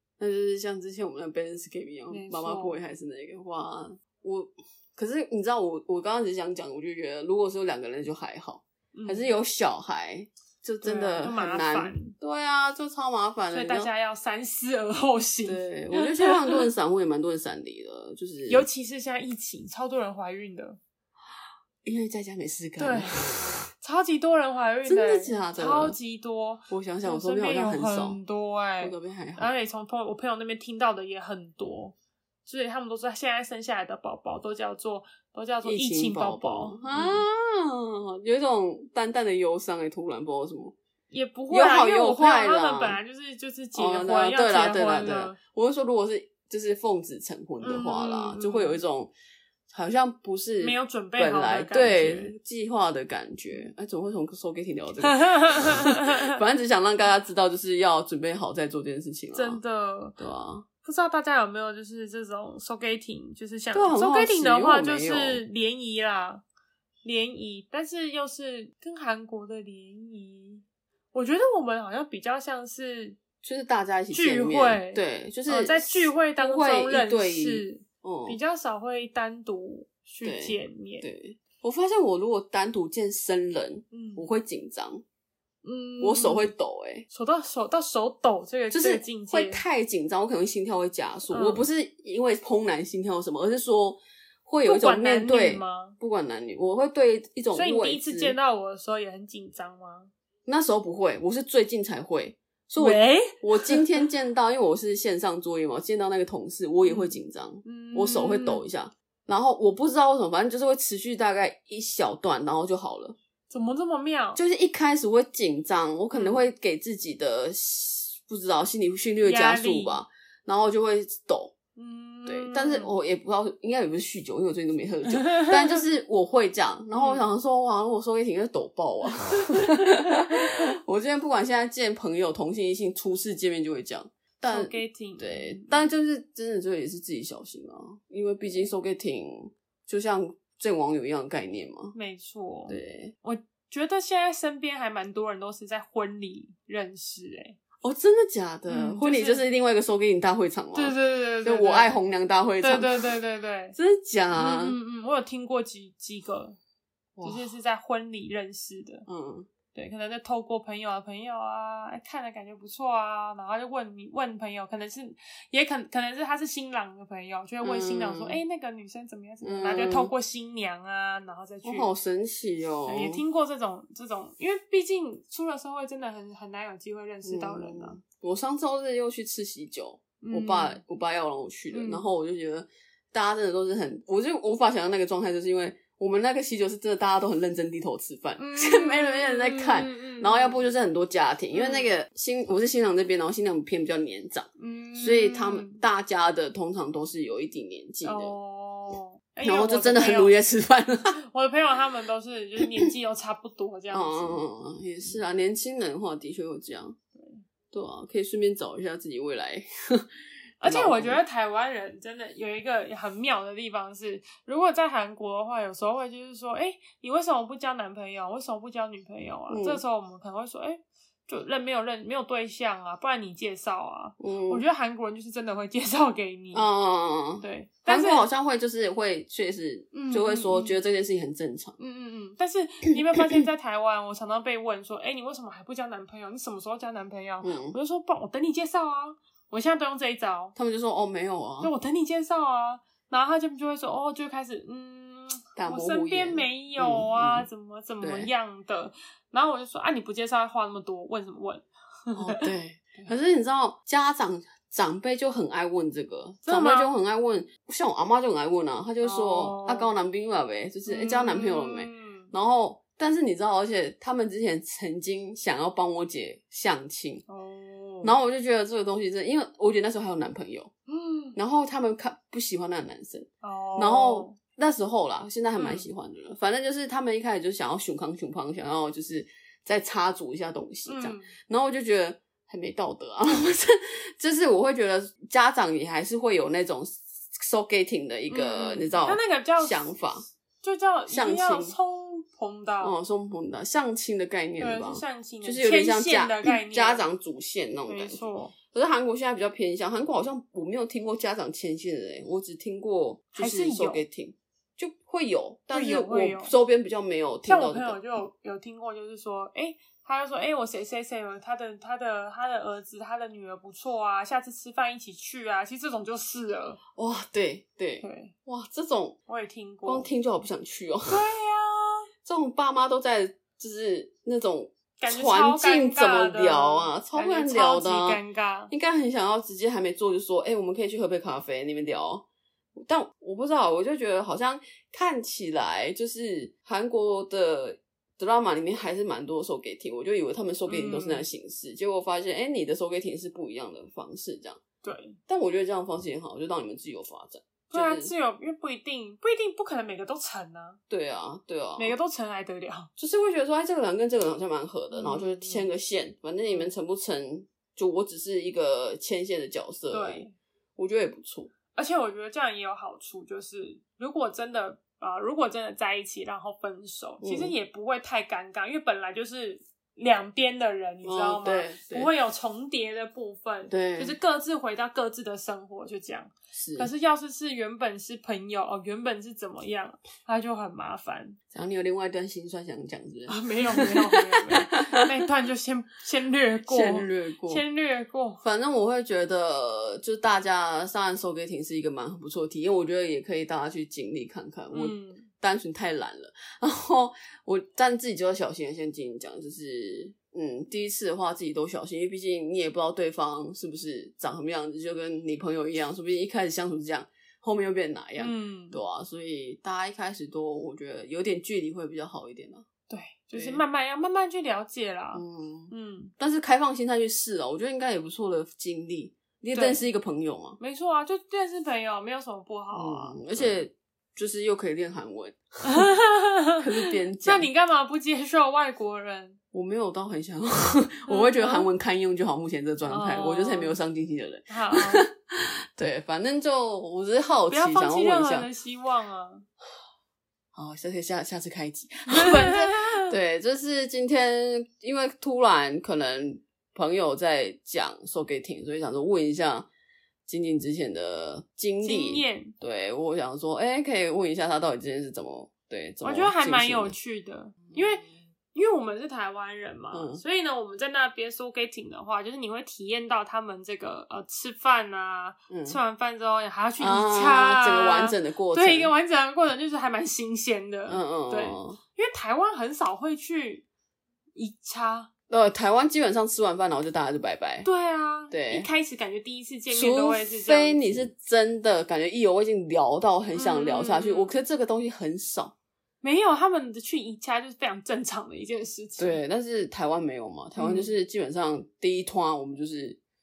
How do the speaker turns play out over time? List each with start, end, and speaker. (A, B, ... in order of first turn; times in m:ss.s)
0:00.2-0:13.9 A
0:02.1-0:02.8 B
0:08.9-0:09.3 B
0:10.8-0:12.1 B
0:13.5-0:16.6 B
0:15.4-0:18.7 A
0:18.5-0:20.8 B
0:21.8-0:23.7 A
0:22.8-0:32.0 B
0:24.8-0:26.0 A
0:26.7-0:28.2 A
0:28.8-0:29.5 A
0:32.5-0:37.2 B
0:35.6-0:40.8 A
0:41.1-0:45.4 B
0:41.5-0:43.0 A
0:43.8-0:49.1 A
0:47.6-0:48.8 B
0:49.7-0:59.6 A
0:50.6-0:52.4 B
0:55.0-0:56.3 B
0:59.3-1:00.2 B
1:00.2-1:00.7 A
1:00.8-1:06.4 B
1:03.7-1:05.4 A
1:07.0-1:13.2 B
1:13.4-1:18.4 A
1:14.1-1:21.1 B
1:20.2-1:25.0 A
1:23.9-1:24.3 B
1:25.6-1:26.5 B
1:26.0-1:27.1 A
1:27.1-1:29.6 B
1:28.7-1:38.4 A
1:31.3-1:31.6 B
1:34.6-1:36.0 B
1:37.5-1:40.1 B
1:40.5-1:53.2 A
1:42.8-1:44.0 B
1:46.8-1:48.6 B
1:53.5-1:54.4 B
1:54.4-2:01.5 A
1:56.1-1:56.4 B
1:59.2-2:00.0 B
2:01.8-2:02.9 B
2:02.3-2:22.0 A
2:05.2-2:05.8 B
2:07.0-2:07.3 B
2:09.4-2:09.9 B
2:14.5-2:15.9 B
2:21.9-2:27.6 B
2:22.7-2:23.1 A
2:27.8-2:33.2 A
2:28.7-2:29.4 B
2:30.7-2:32.0 B
2:32.6-2:33.8 B
2:33.8-2:34.8 A
2:34.4-2:36.6 B
2:37.2-2:37.5 A
2:37.2-2:39.1 B
2:39.1-2:39.5 A
2:39.7-2:51.9 B
2:47.6-2:48.4 A
2:49.4-2:50.1 A
2:51.6-2:53.2 A
2:52.9-2:58.0 B
2:57.2-3:18.4 A
3:00.2-3:00.8 B
3:01.7-3:02.0 B
3:08.4-3:10.6 B
3:11.5-3:11.9 B
3:14.6-3:15.8 B
3:18.0-3:20.4 B
3:19.4-3:21.2 A
3:21.2-3:24.4 B
3:23.9-3:27.0 A
3:27.2-3:27.4 B
3:27.7-3:30.1 A
3:30.6-3:46.7 B
3:30.6-3:31.2 A
3:39.5-3:39.8 A
3:44.2-3:44.6 A
3:46.5-3:51.8 A
3:47.4-3:48.3 B
3:49.9-3:50.8 B
3:51.8-4:00.6 B
3:57.4-3:57.8 A
4:00.6-4:01.7 A
4:01.6-4:13.1 B
4:05.6-4:07.5 A
4:08.0-4:08.3 A
4:12.2-4:27.2 A
4:16.4-4:16.9 B
4:19.0-4:19.9 B
4:20.9-4:22.3 B
4:27.3-4:28.2 B
4:28.0-4:30.7 A
4:30.9-4:31.4 B
4:31.4-4:50.2 A
4:33.4-4:34.4 B
4:35.6-4:35.9 B
4:40.9-4:41.3 B
4:48.3-4:49.9 B
4:50.6-4:53.0 B
4:51.1-4:51.8 A
4:52.8-5:08.0 A
4:54.6-4:57.1 B
4:57.9-4:58.5 B
5:03.4-5:04.0 B
5:05.7-5:06.5 B
5:07.5-5:16.8 B
5:17.0-5:19.2 A
5:18.0-5:18.3 B
5:19.3-5:20.1 B
5:19.8-5:21.2 A
5:21.1-5:22.1 B
5:22.2-5:44.6 A
5:25.0-5:28.7 B
5:40.7-5:41.3 B
5:44.8-5:45.2 B
5:45.3-5:48.1 A
5:47.7-5:50.8 B
5:50.9-5:51.9 A
5:51.8-5:52.9 B
5:53.0-6:00.3 A
5:54.9-5:55.7 B
5:56.5-5:56.7 B
5:59.9-6:00.4 B
6:00.8-6:01.5 A
6:01.7-6:21.4 B
6:07.2-6:07.5 A
6:11.0-6:12.1 A
6:13.7-6:14.2 A
6:16.5-6:16.9 A
6:21.5-6:25.0 A
6:23.3-6:28.4 B
6:26.7-6:27.6 A
6:28.4-6:52.6 A
6:34.7-6:35.3 B
6:48.2-6:48.8 B
6:52.9-6:56.1 B
6:53.3-6:53.6 A
6:55.1-7:00.6 A
6:59.5-6:59.8 B
7:00.6-7:03.5 B
7:02.7-7:05.9 A
7:05.6-7:09.4 B
7:06.6-7:07.5 A
7:09.5-7:18.5 A
7:11.1-7:11.7 B
7:12.9-7:13.8 B
7:14.5-7:15.1 B
7:17.5-7:19.5 B
7:20.5-7:29.7 A
7:22.1-7:23.1 B
7:30.3-7:37.0 A
7:31.8-7:32.5 B
7:36.0-7:53.6 B
7:37.7-7:38.1 A
7:39.9-7:40.2 A
7:45.5-7:45.8 A
7:46.8-7:48.9 A
7:50.9-7:51.8 A
7:54.4-7:55.1 B
7:55.3-7:57.7 A
7:57.6-8:01.1 B
7:58.3-7:58.7 A
7:59.7-8:05.5 A
8:03.3-8:04.4 B
8:06.0-8:09.2 B
8:09.0-8:13.0 A
8:10.6-8:10.9 B